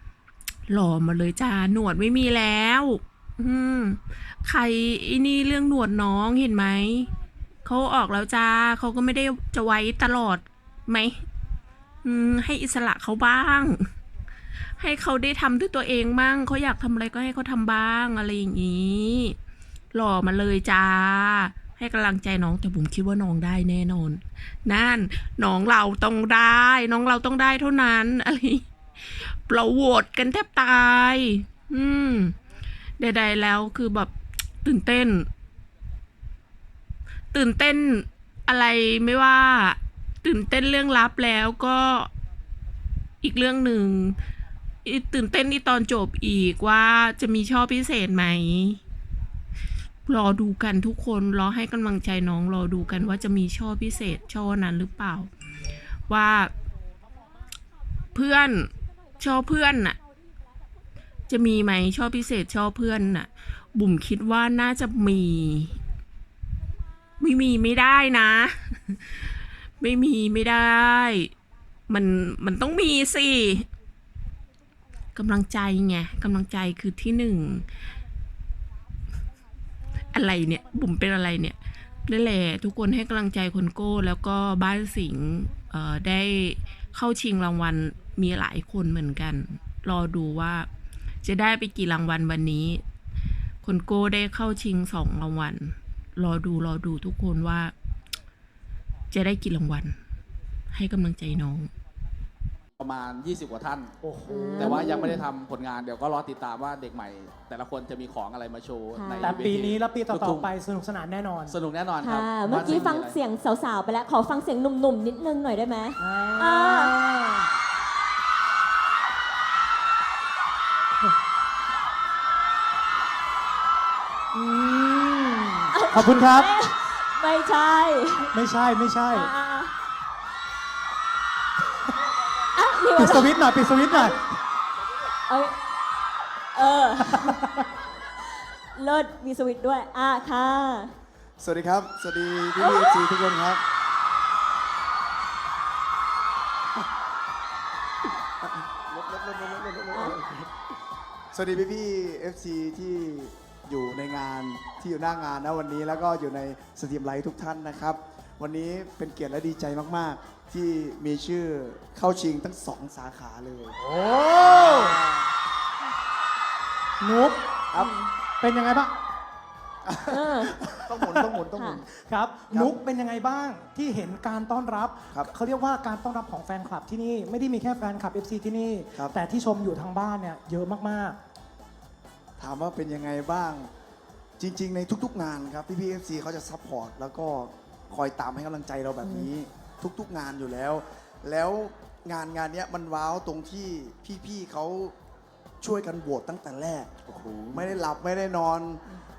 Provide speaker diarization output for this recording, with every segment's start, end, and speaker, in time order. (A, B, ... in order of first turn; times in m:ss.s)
0:00.7-0:07.1 A
0:07.6-0:11.2 A
0:12.0-0:13.9 A
0:14.7-0:19.4 A
0:19.9-0:32.4 A
0:33.0-0:35.3 A
0:37.3-0:42.1 A
0:43.2-0:44.2 A
0:44.8-0:48.8 A
0:50.0-0:55.3 A
0:56.1-0:56.5 A
0:58.1-1:00.0 A
1:01.3-1:05.7 A
1:07.2-1:09.0 A
1:09.8-1:11.3 A
1:11.9-1:13.7 A
1:15.1-1:17.6 A
1:20.1-1:30.7 A
1:31.2-1:32.8 A
1:33.6-1:37.7 A
1:39.1-1:39.9 A
1:40.7-1:41.7 A
1:42.8-1:43.9 B
1:44.0-1:45.2 C
1:44.3-1:45.2 D
1:44.6-1:50.5 B
1:48.9-1:49.4 D
1:49.2-1:51.6 C
1:51.5-1:53.2 B
1:52.0-1:57.0 D
1:56.0-1:57.5 C
2:04.3-2:06.5 C
2:05.7-2:08.3 D
2:08.3-2:09.3 C
2:09.1-2:09.8 D
2:12.5-2:13.3 D
2:12.9-2:14.2 C
2:13.9-2:14.2 D
2:15.3-2:15.6 D
2:16.6-2:17.6 D
2:18.5-2:20.9 D
2:21.4-2:23.6 E
2:22.6-2:23.1 D
2:28.4-2:30.5 E
2:29.9-2:30.2 D
2:31.3-2:43.8 E
2:43.8-2:45.0 C
2:44.3-2:45.2 E
2:47.0-2:47.5 C
2:47.8-2:48.1 D
2:48.4-2:49.0 C
2:49.9-2:51.9 E
2:50.1-2:50.6 D
2:51.0-2:51.3 C
2:51.6-2:51.8 D
2:52.0-3:01.2 C
2:52.5-2:52.8 E
3:02.4-3:03.7 E
3:04.4-3:14.9 E
3:15.6-3:18.9 E